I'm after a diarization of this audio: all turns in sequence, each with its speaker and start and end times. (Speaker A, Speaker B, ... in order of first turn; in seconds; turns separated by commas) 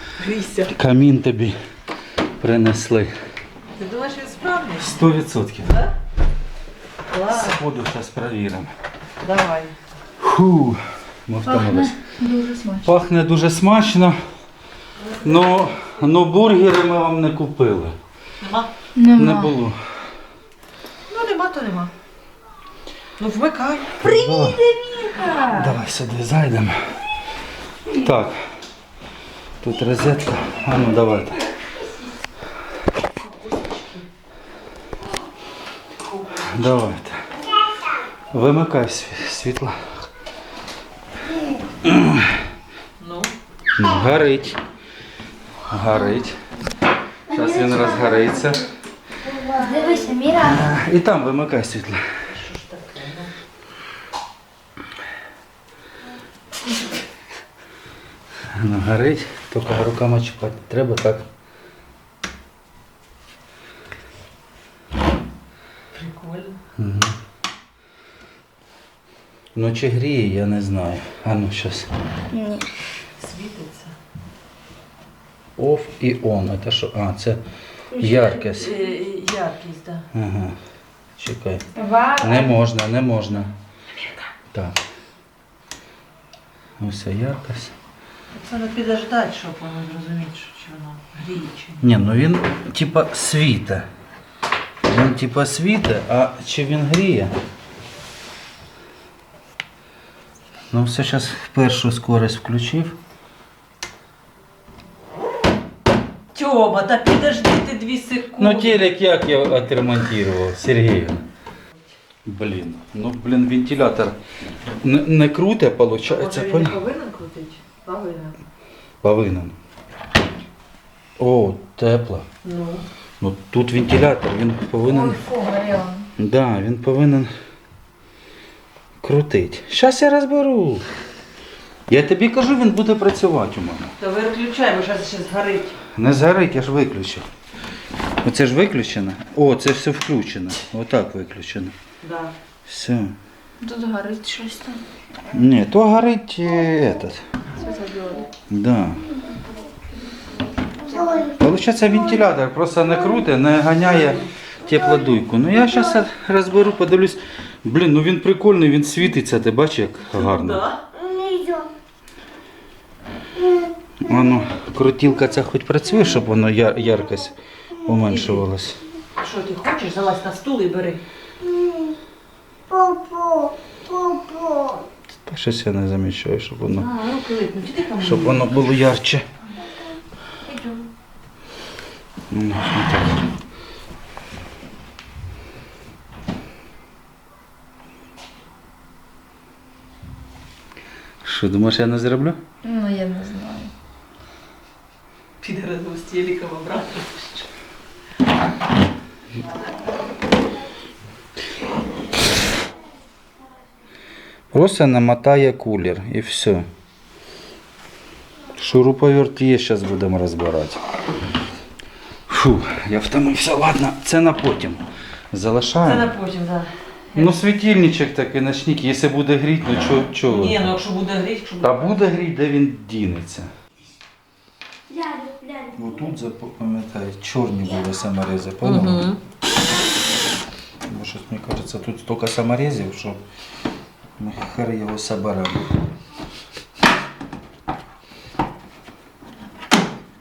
Speaker A: 0.2-0.7, Speaker B: 0.7-1.6, Speaker B: 2.4-3.1, Speaker A: 3.8-5.1, Speaker B: 4.8-5.8, Speaker A: 7.1-7.6, Speaker B: 7.3-8.7, Speaker A: 9.2-9.8, Speaker B: 10.2-14.2, Speaker C: 11.6-12.8, Speaker A: 15.0-15.9, Speaker B: 15.2-17.9, Speaker A: 18.4-18.7, Speaker C: 19.0-19.5, Speaker B: 19.0-19.9, Speaker A: 21.1-21.9, Speaker A: 23.2-24.5, Speaker B: 24.0-24.8, Speaker A: 25.1-25.7, Speaker B: 25.4-26.8, Speaker B: 27.9-28.4, Speaker B: 29.6-31.4, Speaker A: 33.5-34.0, Speaker B: 36.3-37.4, Speaker B: 38.3-40.0, Speaker B: 41.8-42.4, Speaker A: 43.0-43.3, Speaker B: 43.8-44.6, Speaker B: 45.7-46.4, Speaker B: 47.3-48.7, Speaker D: 47.3-48.3, Speaker D: 49.2-50.3, Speaker C: 49.8-50.6, Speaker B: 50.3-52.2, Speaker A: 52.3-53.3, Speaker B: 58.5-61.3, Speaker A: 65.9-66.6, Speaker B: 66.8-67.2, Speaker B: 69.5-71.9, Speaker C: 72.3-72.6, Speaker A: 73.2-74.0, Speaker B: 75.6-78.8, Speaker A: 78.0-80.1, Speaker B: 80.1-80.6, Speaker B: 81.2-83.5, Speaker C: 81.8-82.3, Speaker B: 84.5-84.8, Speaker B: 86.8-87.7, Speaker A: 88.3-91.8, Speaker B: 91.8-93.9, Speaker B: 94.8-97.3, Speaker B: 100.7-103.0, Speaker A: 106.3-108.8, Speaker B: 108.4-111.2, Speaker B: 112.3-114.2, Speaker B: 114.8-116.8, Speaker A: 116.0-118.3, Speaker B: 119.0-119.5, Speaker B: 121.2-122.3, Speaker A: 122.4-122.8, Speaker B: 123.2-125.2, Speaker A: 124.9-126.0, Speaker B: 126.2-127.3, Speaker B: 129.0-130.9, Speaker B: 131.9-133.9, Speaker A: 134.0-135.8, Speaker B: 135.9-137.3, Speaker B: 138.2-141.8, Speaker A: 142.0-142.3, Speaker B: 142.7-143.2, Speaker C: 143.6-144.8, Speaker B: 145.3-147.2, Speaker C: 147.6-148.3, Speaker B: 148.5-149.0, Speaker D: 150.8-151.4, Speaker B: 151.4-160.7, Speaker A: 160.1-160.8, Speaker D: 160.9-161.7, Speaker D: 163.4-163.7, Speaker B: 164.0-168.8, Speaker A: 168.1-168.5, Speaker A: 169.2-171.0, Speaker D: 171.4-172.0, Speaker D: 172.7-174.9, Speaker B: 175.3-176.9, Speaker A: 176.8-178.7, Speaker B: 178.0-179.2, Speaker A: 180.5-180.8, Speaker B: 182.3-183.3, Speaker B: 191.2-192.4, Speaker C: 192.6-193.7, Speaker A: 195.4-197.5, Speaker B: 204.5-206.7, Speaker B: 208.6-210.8, Speaker B: 212.3-216.1, Speaker A: 215.8-217.4, Speaker B: 217.2-220.7, Speaker A: 220.2-221.9, Speaker B: 221.6-223.5, Speaker D: 224.9-225.7, Speaker B: 225.7-229.1, Speaker A: 228.6-229.2, Speaker B: 230.8-233.2, Speaker B: 234.2-235.7